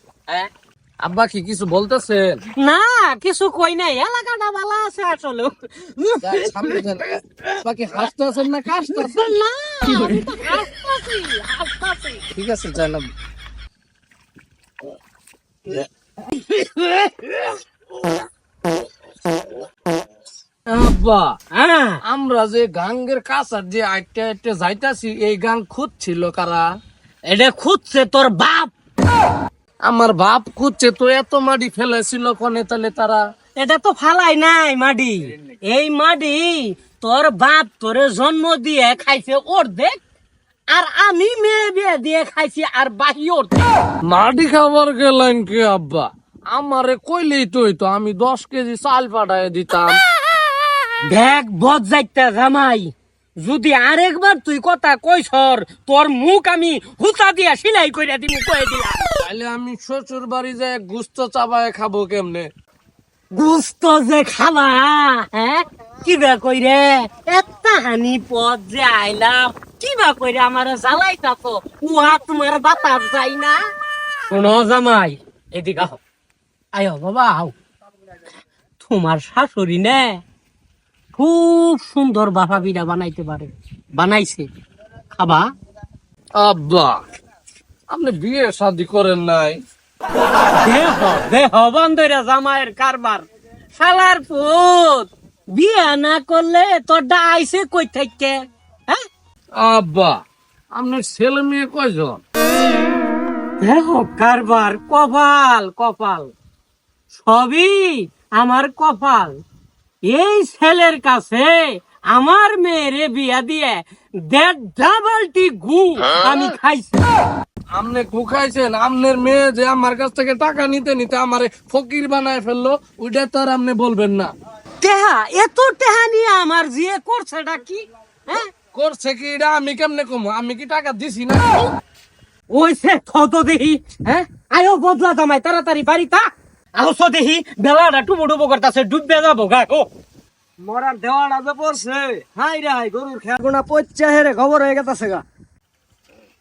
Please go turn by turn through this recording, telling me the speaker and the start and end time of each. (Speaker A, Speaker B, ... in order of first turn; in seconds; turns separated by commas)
Speaker A: 1.0-2.4, Speaker B: 2.6-6.8, Speaker A: 6.2-9.3, Speaker B: 9.0-12.3, Speaker A: 9.9-10.3, Speaker A: 12.3-13.1, Speaker A: 15.7-17.6, Speaker A: 20.7-21.4, Speaker B: 21.5-22.0, Speaker A: 22.1-26.7, Speaker B: 27.3-28.7, Speaker A: 29.8-33.2, Speaker B: 33.6-40.0, Speaker B: 40.7-43.7, Speaker A: 44.1-50.0, Speaker B: 51.1-59.1, Speaker A: 59.2-62.5, Speaker B: 63.3-73.6, Speaker B: 74.3-76.0, Speaker B: 76.8-77.5, Speaker B: 78.8-80.2, Speaker B: 81.1-84.5, Speaker B: 85.1-85.5, Speaker A: 86.4-87.0, Speaker A: 87.9-89.6, Speaker B: 90.5-98.4, Speaker A: 99.6-100.2, Speaker A: 100.7-102.2, Speaker B: 103.6-106.3, Speaker B: 107.1-109.4, Speaker B: 110.1-117.0, Speaker A: 117.7-124.3, Speaker B: 124.8-128.5, Speaker A: 128.7-131.7, Speaker B: 132.5-139.9, Speaker C: 140.6-145.2